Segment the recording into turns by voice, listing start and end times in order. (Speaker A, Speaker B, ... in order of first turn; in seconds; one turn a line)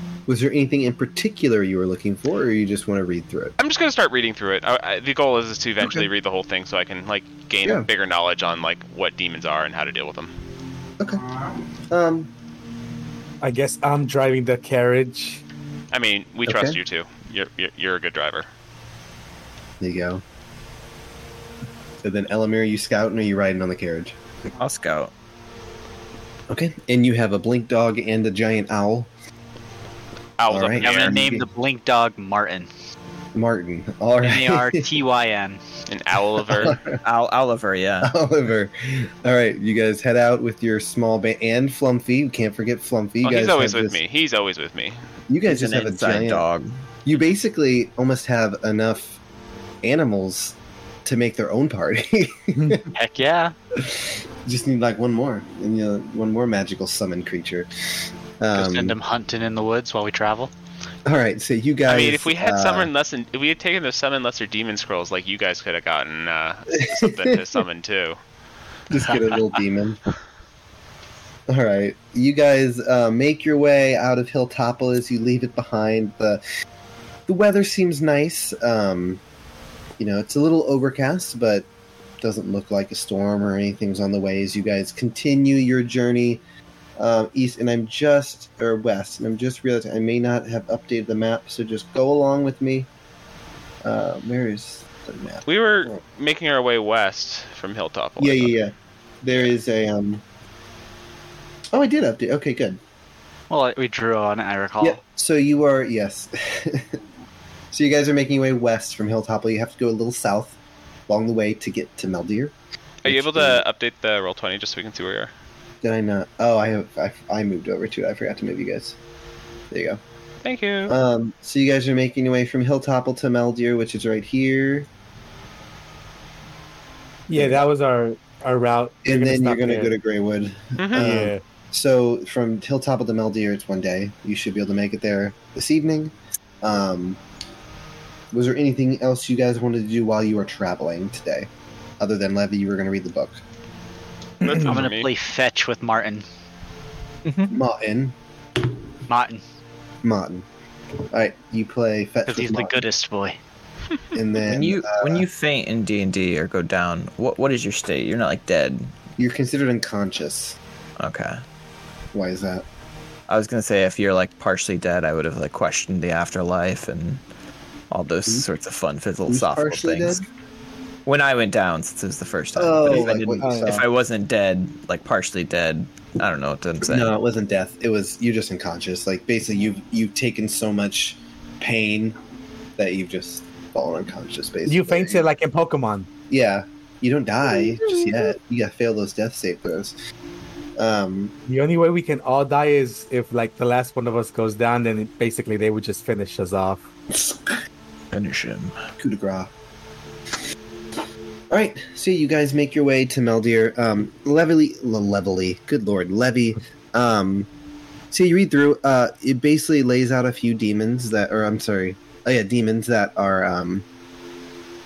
Speaker A: 0.3-3.5
Speaker B: 3.6-10.3
Speaker A: 11.0-11.3
Speaker A: 11.9-12.3
Speaker C: 13.4-15.4
Speaker B: 15.9-18.5
Speaker A: 16.5-16.8
Speaker A: 19.8-20.2
Speaker A: 22.0-24.2
Speaker D: 24.6-25.1
Speaker A: 26.5-29.1
Speaker B: 30.4-31.2
Speaker A: 30.5-31.5
Speaker E: 30.8-32.7
Speaker A: 33.3-35.0
Speaker E: 34.2-35.6
Speaker B: 35.9-36.8
Speaker A: 36.5-37.0
Speaker D: 37.0-38.1
Speaker A: 38.0-44.0
Speaker B: 43.2-45.0
Speaker A: 45.3-46.5
Speaker D: 45.5-46.7
Speaker A: 47.1-49.2
Speaker A: 49.8-52.9
Speaker C: 52.5-52.9
Speaker E: 52.9-53.5
Speaker A: 53.8-57.7
Speaker A: 58.4-59.0
Speaker E: 58.5-60.5
Speaker A: 61.1-62.9
Speaker B: 61.9-68.2
Speaker A: 66.8-67.4
Speaker A: 68.9-70.0
Speaker A: 71.5-76.4
Speaker A: 77.3-79.2
Speaker A: 80.0-81.7
Speaker A: 82.2-86.4
Speaker A: 87.0-92.9
Speaker A: 93.8-96.0
Speaker B: 95.5-98.6
Speaker A: 98.2-100.2
Speaker A: 101.7-102.8
Speaker E: 103.5-105.0
Speaker A: 104.8-107.0
Speaker A: 107.7-110.6
Speaker A: 111.1-113.7
Speaker B: 113.0-115.3
Speaker A: 115.8-119.0
Speaker A: 119.7-120.0
Speaker B: 120.4-121.0
Speaker A: 120.9-124.9
Speaker C: 127.3-129.9
Speaker A: 127.3-127.6
Speaker A: 129.1-137.2
Speaker B: 130.8-131.1
Speaker C: 131.0-131.4
Speaker A: 138.3-141.5
Speaker A: 142.0-143.4
Speaker B: 144.4-145.1
Speaker C: 144.4-144.8
Speaker E: 144.6-146.2
Speaker D: 147.2-147.6
Speaker A: 147.5-148.2
Speaker E: 149.1-149.4
Speaker A: 150.0-150.5
Speaker A: 151.1-152.8
Speaker E: 152.3-153.4
Speaker A: 154.1-155.3
Speaker D: 154.5-158.9
Speaker A: 159.2-160.6
Speaker D: 161.0-161.4
Speaker A: 162.1-162.7
Speaker D: 163.3-167.2
Speaker D: 167.9-170.2
Speaker A: 169.3-170.2
Speaker D: 171.1-177.1
Speaker A: 172.6-173.9
Speaker C: 173.4-173.8
Speaker A: 176.8-182.2
Speaker A: 182.8-185.3
Speaker C: 184.7-186.1
Speaker A: 186.3-189.9
Speaker A: 190.8-191.3
Speaker C: 191.5-196.9
Speaker A: 197.1-197.6
Speaker D: 198.1-198.8
Speaker A: 199.0-199.5
Speaker A: 201.5-207.5
Speaker A: 208.1-213.9